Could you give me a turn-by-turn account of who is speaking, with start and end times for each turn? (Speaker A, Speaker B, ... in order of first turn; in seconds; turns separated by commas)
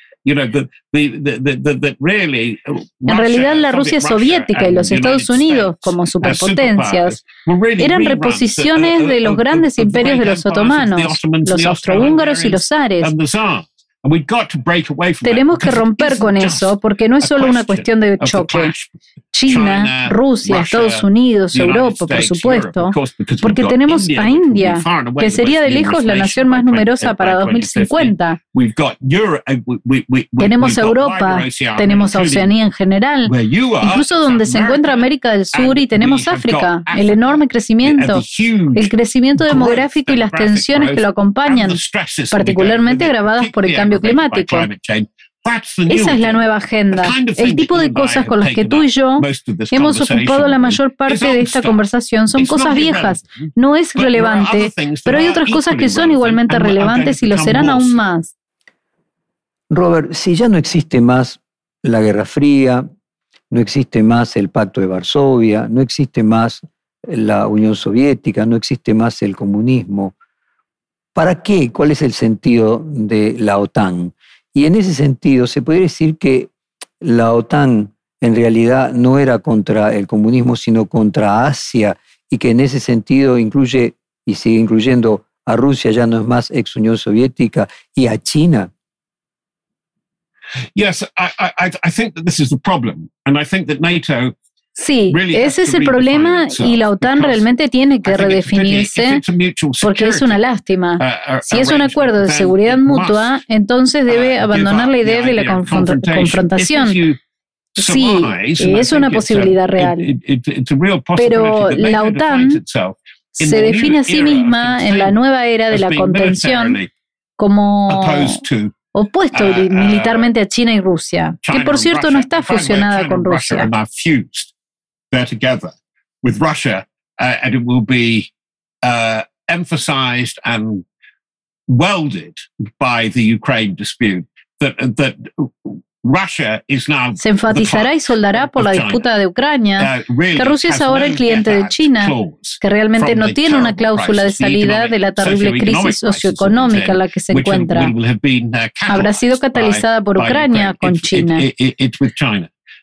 Speaker A: 0.2-18.9, Speaker B: 3.1-7.2, Speaker B: 7.8-13.1, Speaker B: 15.2-18.7, Speaker B: 19.3-28.4, Speaker A: 19.5-32.5, Speaker B: 30.4-38.2, Speaker A: 33.2-51.8, Speaker B: 38.7-41.8, Speaker B: 42.3-44.7, Speaker B: 45.9-58.3, Speaker A: 52.3-57.9, Speaker C: 59.7-62.9, Speaker C: 63.5-70.1, Speaker C: 71.1-88.7, Speaker A: 90.7-94.3, Speaker B: 94.8-99.2, Speaker A: 95.1-97.4, Speaker A: 98.0-100.4, Speaker B: 99.8-107.0, Speaker A: 101.0-103.3, Speaker A: 104.1-107.2, Speaker B: 107.8-110.1, Speaker A: 107.8-115.2, Speaker B: 111.2-112.6, Speaker B: 113.3-116.8, Speaker A: 115.7-116.9, Speaker B: 117.4-118.4, Speaker A: 117.9-118.7, Speaker B: 118.9-123.7, Speaker A: 119.3-120.3, Speaker A: 121.4-124.5, Speaker A: 125.1-128.3, Speaker A: 128.8-130.8, Speaker A: 131.7-139.1, Speaker B: 137.2-147.9, Speaker A: 139.8-152.5, Speaker B: 148.9-151.4